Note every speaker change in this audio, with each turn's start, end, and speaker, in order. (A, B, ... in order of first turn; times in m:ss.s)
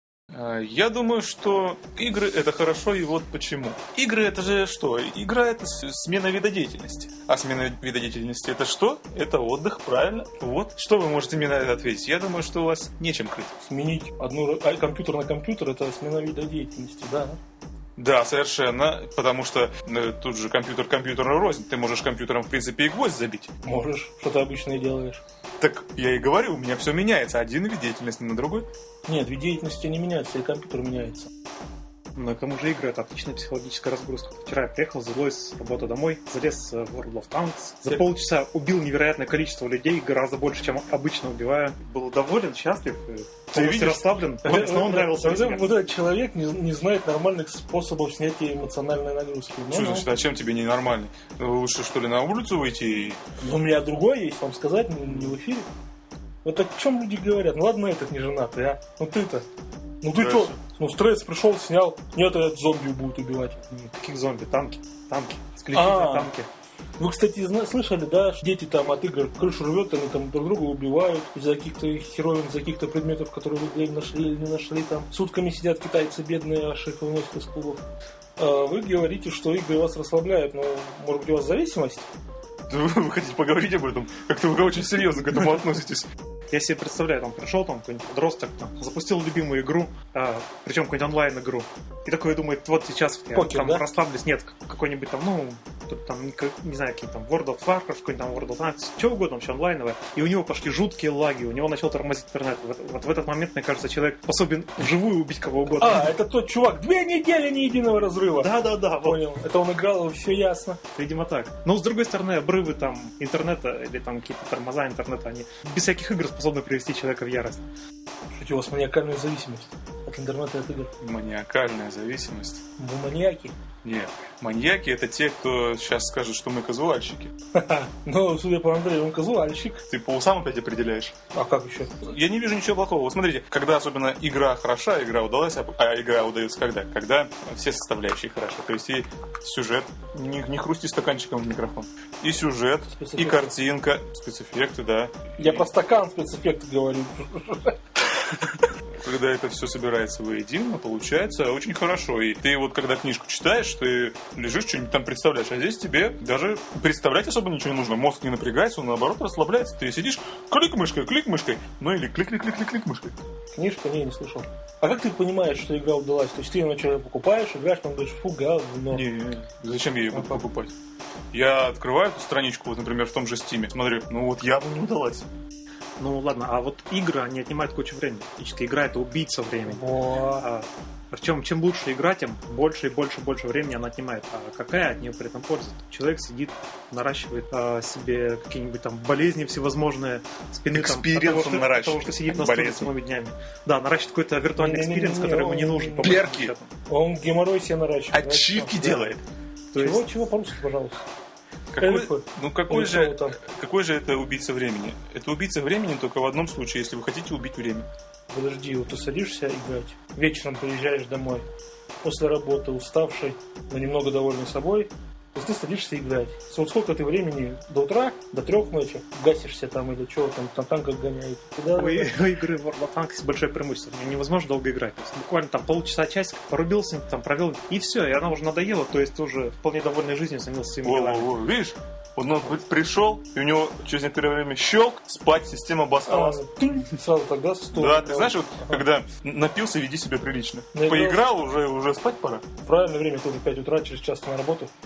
0:00.3-0:13.5 A
0:13.6-0:17.4 B
0:18.0-0:23.5 A
0:23.6-0:25.2 B
0:25.6-0:28.7 A
0:29.0-0:31.3 B
0:32.2-0:45.8 C
0:43.5-0:44.1 A
0:44.4-0:50.1 B
0:49.7-0:53.2 A
0:53.4-0:55.7 B
0:56.4-0:59.4 B
1:00.0-1:03.6 B
1:00.2-1:00.6 A
1:03.7-1:06.5 C
1:05.7-1:06.3 B
1:07.0-1:17.8 B
1:18.4-1:22.1 B
1:22.7-1:26.1 A
1:26.5-1:46.1 C
1:33.3-1:33.8 B
1:45.8-1:50.8 B
1:48.4-1:49.2 C
1:50.9-1:57.7 C
1:58.3-2:00.9 B
2:01.0-2:02.6 A
2:02.8-2:03.5 B
2:03.8-2:07.3 A
2:07.6-2:09.8 B
2:09.9-2:11.1 A
2:11.3-2:12.0 B
2:12.0-2:25.7 A
2:22.9-2:23.5 B
2:25.4-2:27.8 B
2:29.0-2:43.1 A
2:43.5-2:49.0 B
2:48.9-2:50.7 A
2:50.1-2:50.4 B
2:51.3-2:55.3 A
2:56.0-3:16.7 C
2:59.6-3:00.5 B
3:10.7-3:12.9 A
3:14.5-3:16.3 B
3:16.0-3:16.5 A
3:16.9-3:19.1 B
3:18.1-3:19.2 A
3:19.7-3:20.1 C
3:19.8-3:21.0 B
3:21.7-3:27.9 A
3:21.8-3:23.4 B
3:28.3-3:31.4 B
3:32.0-3:42.2 B
3:41.7-3:51.3 C
3:50.8-3:56.4 A
3:56.0-3:58.8 B
3:57.7-4:02.4 A
4:00.7-4:01.2 B
4:02.6-4:04.7 B